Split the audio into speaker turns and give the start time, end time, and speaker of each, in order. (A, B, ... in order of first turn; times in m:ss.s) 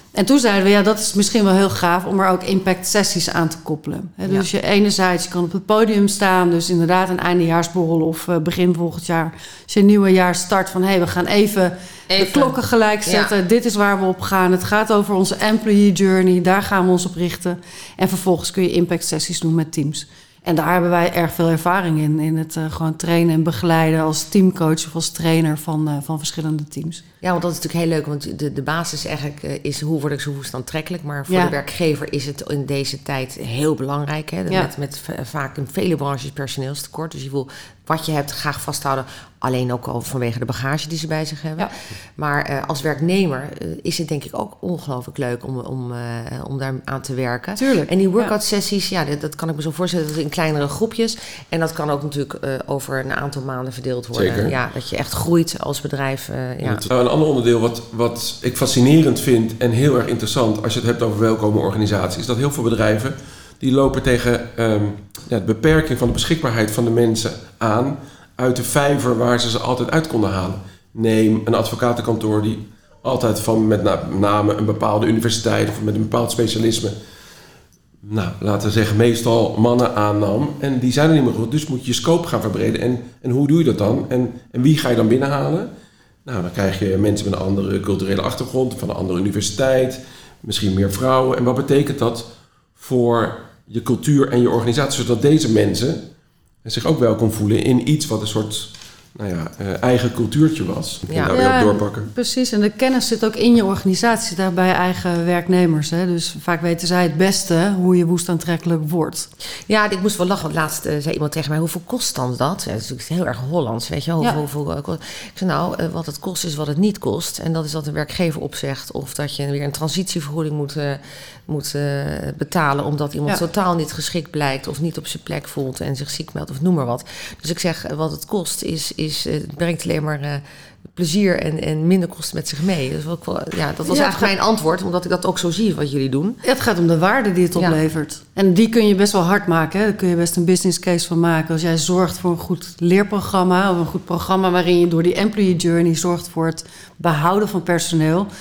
0:00.1-0:27.0 A
0:12.1-0:13.3 B
0:27.2-0:56.8 B
0:31.3-0:31.5 A
0:47.6-0:48.3 A
0:54.1-0:54.6 C
0:56.6-1:16.9 C
1:18.0-1:25.7 C
1:26.2-1:36.0 C
1:36.6-1:42.0 C
1:41.1-1:41.3 B
1:41.3-1:49.3 A
1:49.7-2:10.4 B
2:10.9-2:16.4 B
2:13.8-2:14.3 A
2:16.4-2:28.3 A